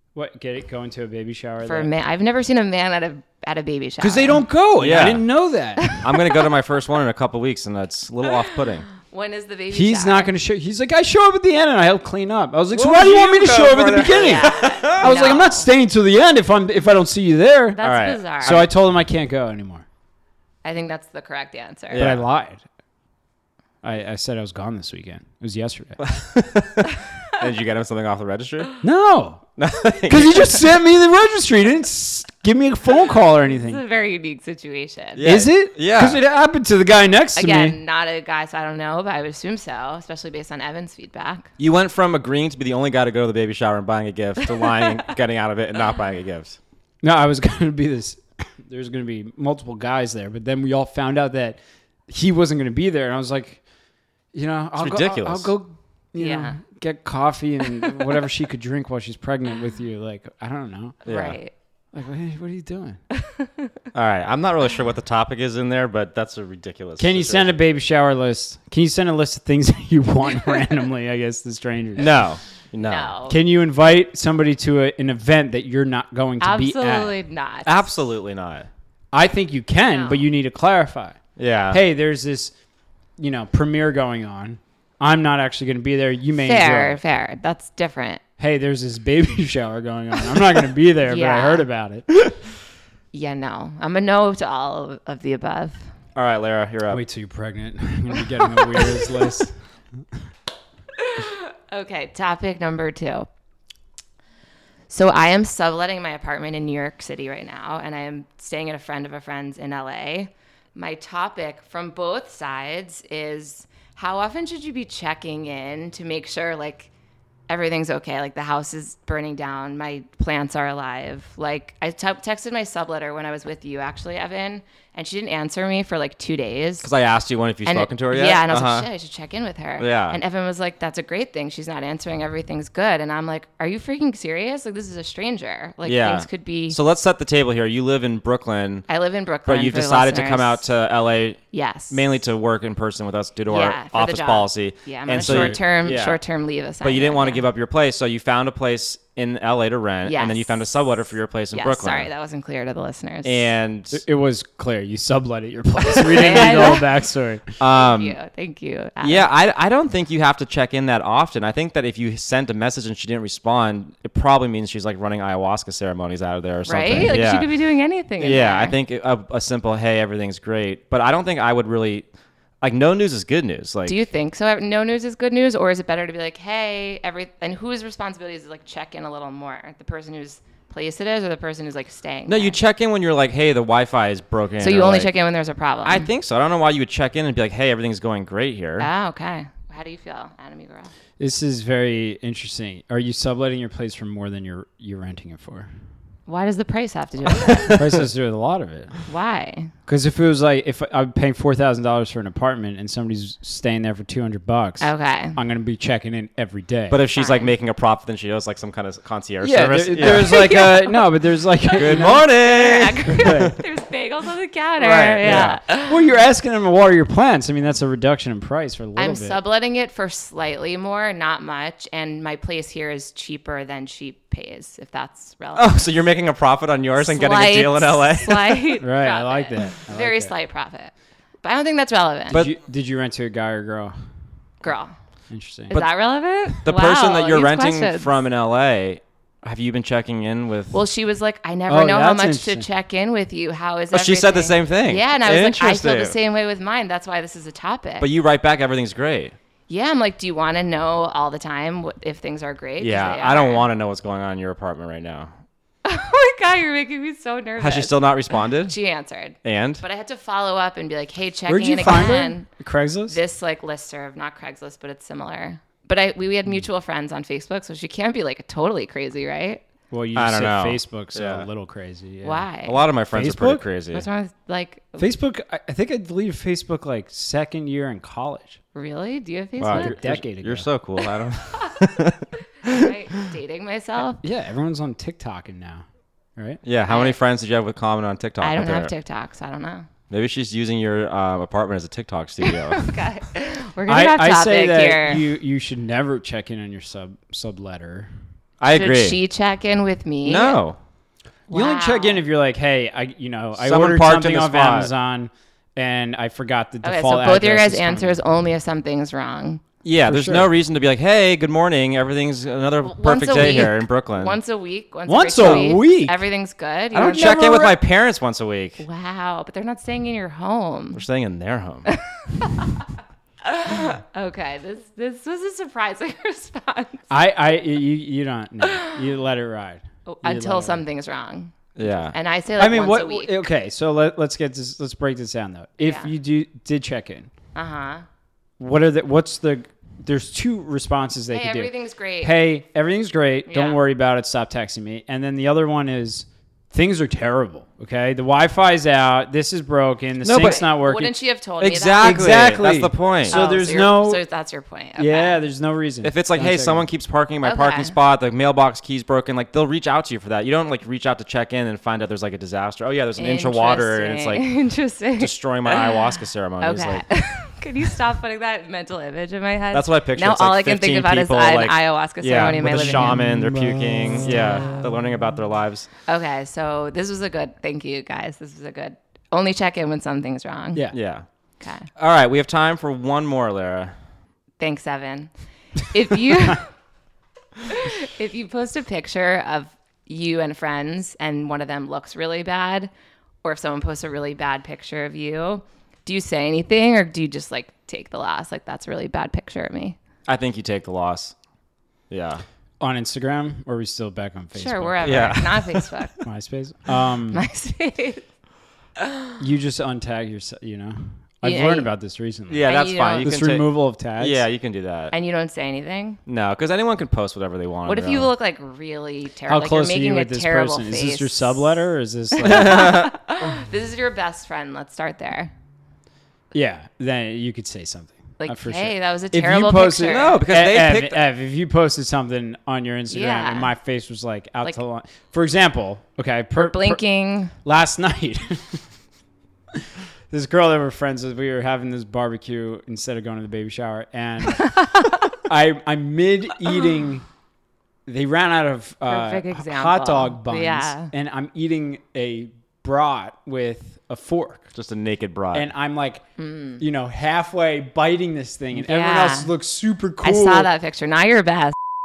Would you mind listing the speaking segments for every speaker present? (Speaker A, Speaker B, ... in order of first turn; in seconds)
Speaker A: 0.1-1.9, 4.0-6.0, 9.7-17.8, 18.4-19.9, 22.0-22.6, 23.8-26.0, 28.8-29.4, 30.1-33.8, 35.2-37.8, 47.0-53.6, 54.3-61.4, 61.9-63.0, 67.0-72.1, 73.3-77.2, 79.1-81.2, 81.7-82.5, 83.2-87.0, 88.4-92.1, 96.9-99.7, 145.2-145.6, 153.9-157.5, 191.2-195.7, 197.7-198.9, 199.9-207.0, 209.4-212.3, 213.1-213.6, 214.8-219.4, 228.8-230.3, 232.3-233.9, 235.3-235.8, 241.7-242.7, 261.5-263.2, 269.9-272.5, 273.1-273.6, 275.0-278.6, 279.7-280.7, 284.2-285.9, 293.9-298.1, 301.5-308.2, 310.1-310.5, 315.1-316.2, 317.2-317.7, 327.1-330.8, 332.6-337.3, 338.6-351.1, 352.0-354.2, 355.0-356.8, 372.3-374.8, 402.8-405.4, 406.2-407.4, 409.4-414.4, 419.5-423.0, 426.5-437.0, 437.6-438.8, 440.3-447.2, 448.1-454.7, 455.5-456.2, 456.8-460.7
Speaker B: 1.6-4.4, 5.9-6.4, 8.3-10.3, 14.1-15.7, 17.8-18.7, 20.6-22.1, 33.5-35.3, 37.4-41.5, 44.4-44.9, 56.2-56.6, 61.0-61.5, 63.2-63.7, 72.9-73.4, 76.4-77.8, 79.9-80.2, 86.3-88.2, 91.1-91.7, 93.1-95.9, 98.5-99.1, 101.0-103.3, 104.9-116.9, 117.5-126.9, 127.7-136.8, 138.9-140.7, 141.5-142.0, 143.5-147.5, 150.1-150.6, 151.5-153.5, 156.2-156.9, 157.6-159.3, 166.7-168.8, 173.9-182.6, 184.6-186.1, 188.8-190.9, 196.3-197.8, 199.1-199.7, 204.8-205.4, 207.2-207.5, 210.1-211.1, 211.6-216.1, 219.0-226.0, 227.0-230.9, 231.4-232.4, 234.6-234.9, 235.7-238.1, 240.7-248.1, 249.7-253.7, 255.8-262.5, 263.1-269.6, 272.2-272.8, 273.9-275.1, 278.8-280.0, 282.6-284.2, 286.9-287.2, 288.4-289.9, 292.4-295.3, 298.7-300.6, 301.5-302.2, 306.8-309.6, 312.8-317.7, 318.8-321.0, 321.9-322.9, 323.4-327.1, 328.7-329.0, 330.1-331.6, 332.1-333.4, 335.8-336.1, 337.6-338.1, 341.3-342.3, 343.5-343.8, 350.4-352.6, 353.3-355.4, 357.4-357.9, 363.2-373.3, 374.2-374.8, 376.1-380.9, 381.6-381.9, 384.6-386.7, 387.7-392.9, 393.4-400.0, 404.6-406.2, 407.3-408.3, 409.0-409.3, 411.4-411.9, 412.7-413.3, 415.1-416.2, 417.9-421.6, 422.4-425.5, 428.4-430.4, 433.1-433.7, 436.6-437.5, 449.1-451.1, 456.4-456.8, 458.8-459.5, 460.2-461.8
Speaker C: 4.8-5.2, 6.0-8.9, 12.7-15.1, 17.8-18.6, 21.9-22.2, 26.0-28.7, 29.6-30.6, 35.2-36.2, 41.6-46.6, 54.8-55.5, 61.1-61.4, 63.9-67.6, 72.0-73.1, 77.7-78.7, 81.4-81.8, 96.2-97.0, 126.8-128.9, 129.8-130.2, 135.8-138.8, 139.5-141.4, 141.9-146.2, 146.8-152.1, 153.2-154.0, 156.2-156.7, 157.6-158.2, 159.0-167.5, 168.2-172.1, 172.6-174.0, 182.3-185.1, 185.8-188.9, 197.3-197.9, 206.9-210.6, 211.8-213.5, 215.2-215.6, 225.6-228.8, 236.6-240.8, 243.9-246.2, 248.0-249.4, 252.8-255.3, 257.6-258.8, 259.4-259.8, 270.1-271.5, 272.6-274.1, 279.6-283.3, 286.6-288.9, 290.1-292.9, 298.6-299.2, 300.2-300.8, 303.6-304.9, 309.8-314.4, 315.4-315.7, 316.9-318.8, 320.9-321.9, 331.8-332.2, 350.2-350.6, 351.6-353.4, 356.0-364.5, 365.2-367.1, 369.7-375.9, 380.9-381.3, 382.0-383.9, 400.3-401.4, 402.1-402.4, 405.0-405.9, 412.5-415.1, 416.3-418.3, 422.4-423.1, 430.1-431.2, 454.7-455.7